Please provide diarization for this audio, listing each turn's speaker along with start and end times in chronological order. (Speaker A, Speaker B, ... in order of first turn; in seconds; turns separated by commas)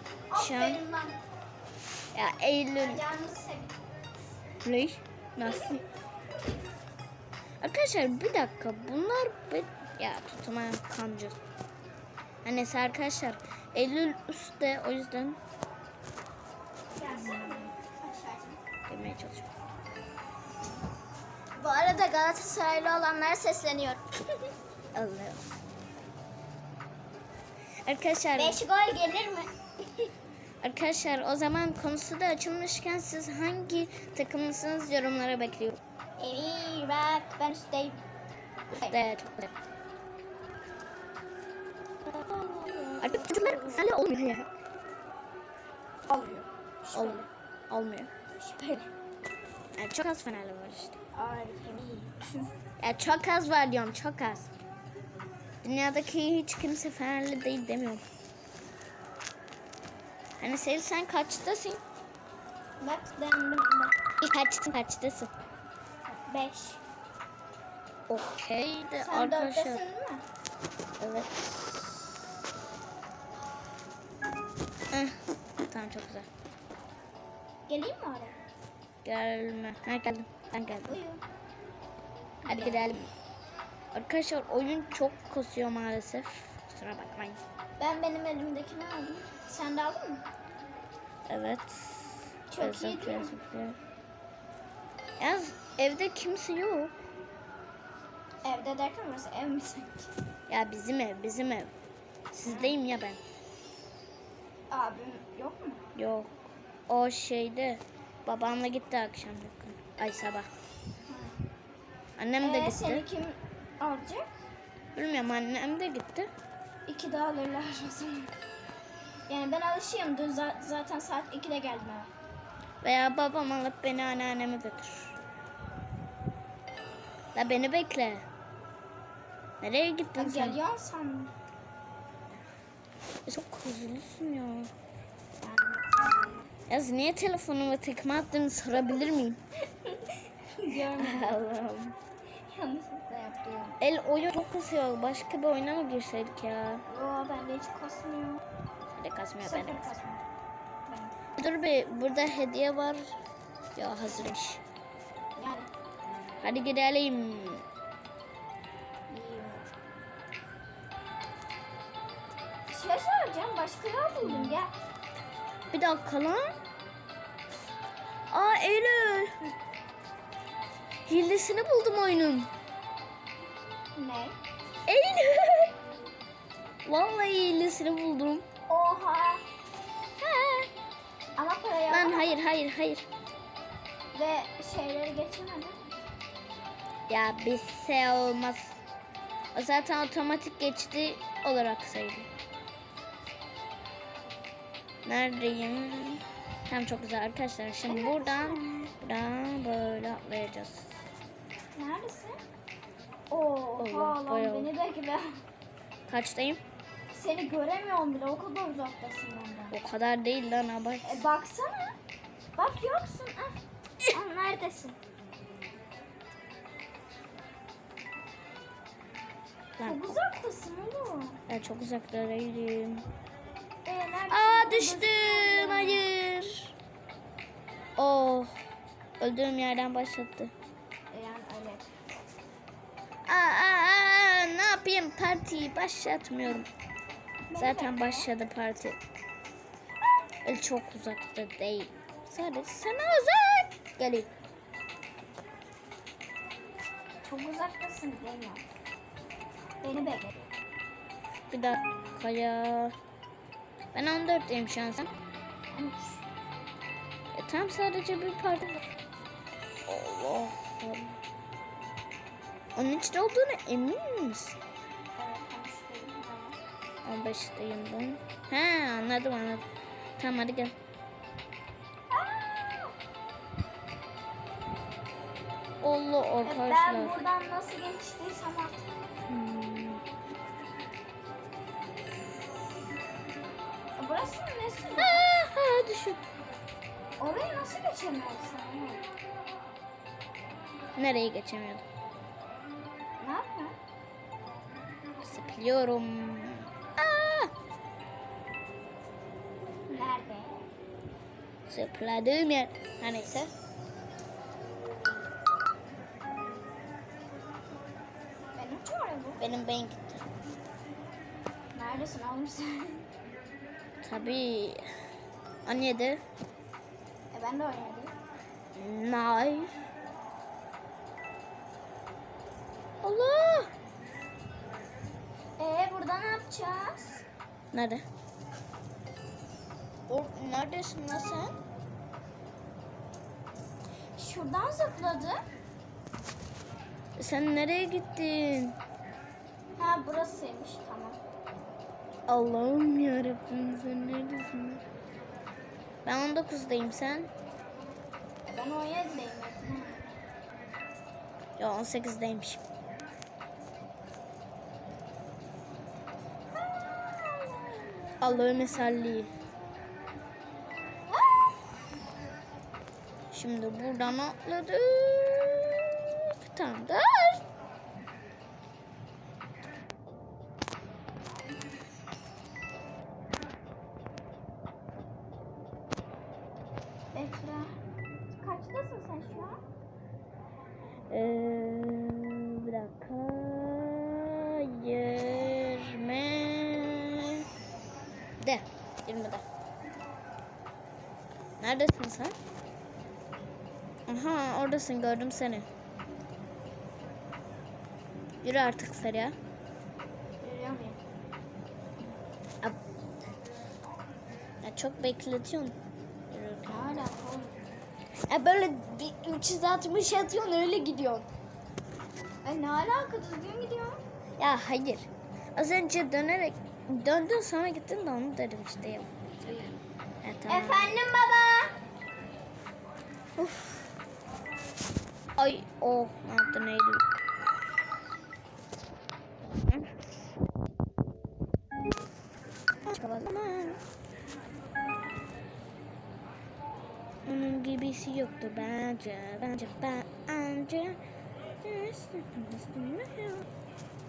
Speaker A: 0.3-1.1, Speaker B: 0.4-0.8, Speaker B: 2.1-3.0, Speaker A: 2.8-3.7, Speaker B: 4.6-5.8, Speaker B: 7.6-11.4, Speaker B: 12.4-15.4, Speaker A: 16.9-18.6, Speaker B: 17.4-17.7, Speaker B: 18.9-19.5, Speaker A: 21.6-24.1, Speaker B: 24.9-25.5, Speaker B: 27.9-28.6, Speaker A: 28.4-30.1, Speaker B: 30.6-35.8, Speaker A: 36.2-38.0, Speaker B: 38.7-39.5, Speaker A: 42.1-43.9, Speaker B: 43.0-44.5, Speaker A: 46.1-47.3, Speaker B: 46.9-48.1, Speaker A: 48.4-48.9, Speaker B: 49.8-51.0, Speaker A: 51.1-52.5, Speaker B: 52.8-54.5, Speaker B: 55.6-58.0, Speaker B: 60.4-61.8, Speaker A: 62.8-63.9, Speaker B: 64.2-65.3, Speaker A: 66.0-66.8, Speaker B: 68.1-69.8, Speaker A: 69.0-70.2, Speaker B: 71.0-71.9, Speaker B: 74.9-76.3, Speaker A: 77.7-78.4, Speaker B: 79.0-81.0, Speaker A: 80.8-81.2, Speaker B: 82.5-83.1, Speaker A: 82.5-82.9, Speaker B: 83.9-87.4, Speaker A: 87.8-90.2, Speaker B: 91.3-93.8, Speaker A: 92.5-93.3, Speaker B: 95.2-96.9, Speaker A: 98.4-100.1, Speaker B: 100.5-101.7, Speaker B: 102.3-103.2, Speaker A: 102.4-102.8, Speaker A: 104.7-105.8, Speaker B: 106.0-106.4, Speaker B: 106.9-110.5, Speaker A: 111.1-111.4, Speaker B: 112.2-113.0, Speaker A: 112.4-114.4, Speaker B: 115.0-116.3, Speaker A: 116.9-118.3, Speaker A: 119.3-122.1, Speaker B: 122.8-125.2, Speaker B: 127.3-128.2, Speaker B: 129.6-130.6, Speaker A: 130.2-131.3, Speaker B: 133.3-134.7, Speaker A: 135.4-136.5, Speaker B: 136.7-139.4, Speaker A: 139.7-141.4, Speaker B: 140.7-142.0, Speaker A: 142.5-143.8, Speaker B: 143.8-146.8, Speaker A: 146.9-148.4, Speaker B: 148.9-149.9, Speaker A: 149.4-150.2, Speaker A: 150.9-151.2, Speaker B: 151.4-153.1, Speaker B: 153.8-154.6, Speaker A: 155.4-155.7, Speaker B: 156.4-157.7, Speaker A: 159.1-159.7, Speaker A: 162.7-164.7, Speaker B: 164.2-164.6, Speaker B: 165.7-166.5, Speaker B: 168.3-169.5, Speaker B: 171.1-172.5, Speaker A: 174.0-174.4, Speaker B: 174.9-175.7, Speaker B: 176.9-178.4, Speaker A: 178.7-179.4, Speaker B: 180.2-180.7, Speaker A: 181.4-182.4, Speaker B: 181.9-183.1, Speaker A: 184.1-185.8, Speaker B: 187.1-188.8, Speaker B: 189.5-192.3, Speaker B: 195.1-201.0, Speaker A: 197.8-198.9, Speaker A: 201.7-202.4, Speaker A: 203.3-205.4, Speaker B: 203.8-204.7, Speaker B: 206.1-206.6, Speaker A: 207.1-209.8, Speaker B: 209.7-211.2, Speaker A: 211.0-212.0, Speaker A: 212.6-215.0, Speaker B: 219.8-220.2, Speaker A: 219.8-221.4, Speaker B: 221.5-223.1, Speaker A: 223.8-226.1, Speaker B: 224.3-226.7, Speaker B: 228.0-228.5, Speaker B: 229.2-230.5, Speaker A: 231.1-231.9, Speaker B: 233.3-236.7, Speaker A: 237.5-238.3, Speaker B: 237.6-239.0, Speaker B: 240.4-244.3, Speaker A: 247.2-248.7, Speaker A: 249.8-250.5, Speaker B: 251.5-252.9, Speaker B: 253.9-255.1, Speaker A: 255.7-256.2, Speaker B: 257.3-258.9, Speaker B: 259.9-261.2, Speaker B: 262.8-264.6, Speaker A: 265.2-266.6, Speaker B: 267.1-269.6, Speaker B: 270.2-270.8, Speaker A: 272.1-272.9, Speaker B: 275.8-277.2, Speaker A: 276.4-278.8, Speaker B: 279.3-280.0, Speaker A: 284.0-285.3, Speaker B: 284.9-286.2, Speaker A: 287.2-289.1, Speaker B: 291.0-291.8, Speaker A: 293.2-293.8, Speaker B: 295.2-297.5, Speaker A: 299.9-300.6, Speaker B: 301.7-303.5, Speaker A: 308.6-309.4, Speaker B: 309.4-310.3, Speaker A: 311.7-313.1, Speaker B: 314.0-314.8, Speaker B: 315.7-316.2, Speaker A: 317.3-318.1, Speaker B: 318.8-319.8, Speaker B: 323.0-323.7, Speaker A: 325.6-327.2, Speaker B: 327.7-328.0, Speaker B: 330.1-331.6, Speaker A: 334.2-335.4, Speaker B: 337.2-338.8, Speaker A: 339.8-341.2, Speaker B: 342.3-344.8, Speaker B: 346.1-347.3, Speaker A: 348.4-350.1, Speaker B: 351.6-352.6, Speaker A: 356.8-358.6, Speaker B: 358.2-359.3, Speaker B: 363.3-367.4, Speaker A: 377.1-377.8, Speaker A: 378.3-379.6, Speaker B: 381.1-387.4, Speaker B: 388.4-389.4, Speaker B: 391.6-392.4, Speaker B: 394.1-395.7, Speaker B: 398.4-399.4, Speaker A: 400.4-401.0, Speaker B: 404.6-405.8, Speaker B: 406.3-407.1, Speaker A: 406.7-407.6, Speaker B: 408.3-411.3, Speaker A: 412.4-414.0, Speaker B: 414.4-419.1, Speaker A: 419.4-419.7, Speaker B: 420.2-421.0, Speaker A: 420.5-421.8, Speaker B: 423.4-423.9, Speaker B: 425.4-427.0, Speaker B: 432.9-433.8, Speaker B: 437.2-441.0, Speaker B: 441.6-443.5